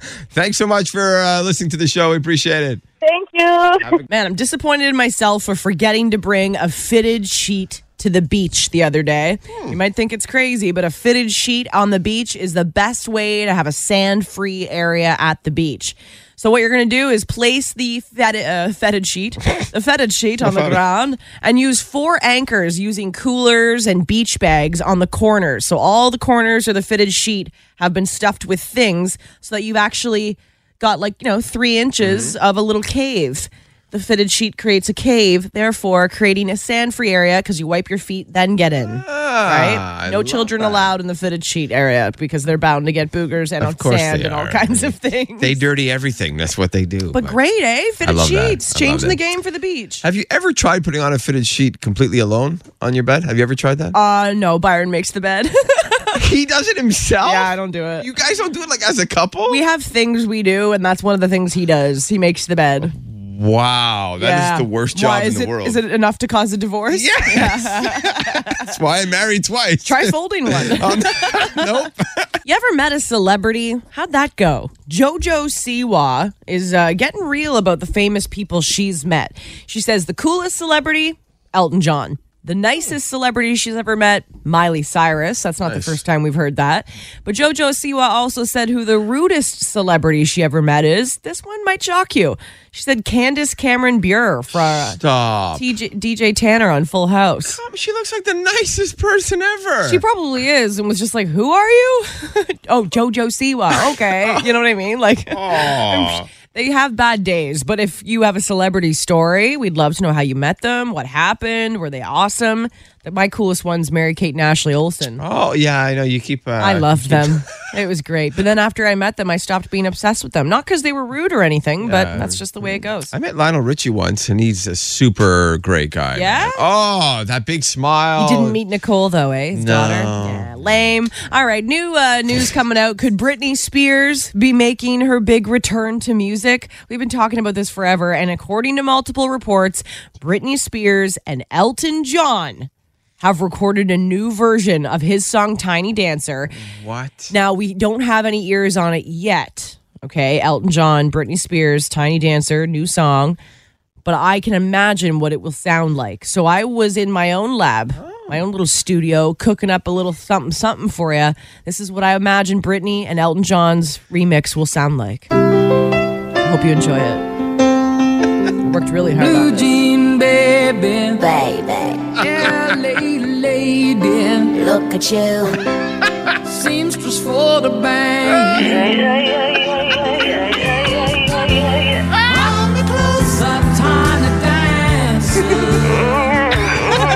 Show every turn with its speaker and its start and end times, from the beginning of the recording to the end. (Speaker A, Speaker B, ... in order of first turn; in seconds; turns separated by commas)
Speaker A: 0.3-2.8, Speaker B: 3.0-4.0, Speaker A: 3.8-4.1, Speaker C: 4.1-45.6, Speaker A: 20.4-20.8, Speaker A: 32.0-32.4, Speaker A: 38.9-40.9, Speaker A: 43.6-47.4, Speaker C: 47.1-50.0, Speaker A: 48.0-49.2, Speaker A: 50.0-54.0, Speaker C: 53.9-56.2, Speaker A: 56.2-59.6, Speaker C: 57.2-58.1, Speaker C: 59.5-62.9, Speaker A: 62.8-65.8, Speaker C: 64.2-68.7, Speaker A: 66.9-72.4, Speaker C: 69.8-71.7, Speaker C: 72.5-95.0, Speaker A: 85.6-86.0, Speaker A: 94.9-95.7, Speaker C: 95.5-97.6, Speaker A: 97.6-100.0, Speaker C: 99.8-115.2, Speaker A: 103.9-104.5, Speaker A: 105.3-106.3, Speaker A: 115.2-117.5, Speaker C: 116.6-123.1, Speaker A: 121.8-128.6, Speaker C: 126.2-126.6, Speaker C: 128.2-142.7, Speaker A: 129.5-130.6, Speaker C: 143.2-146.6, Speaker A: 146.5-147.3, Speaker C: 147.3-153.4, Speaker C: 154.0-165.3, Speaker A: 158.0-158.4, Speaker C: 166.4-167.3, Speaker C: 168.7-169.8, Speaker D: 169.2-171.2, Speaker E: 171.2-172.1, Speaker D: 172.2-174.6, Speaker E: 174.5-175.6, Speaker D: 176.4-179.2, Speaker B: 179.6-181.9, Speaker D: 180.8-181.2, Speaker D: 182.2-186.2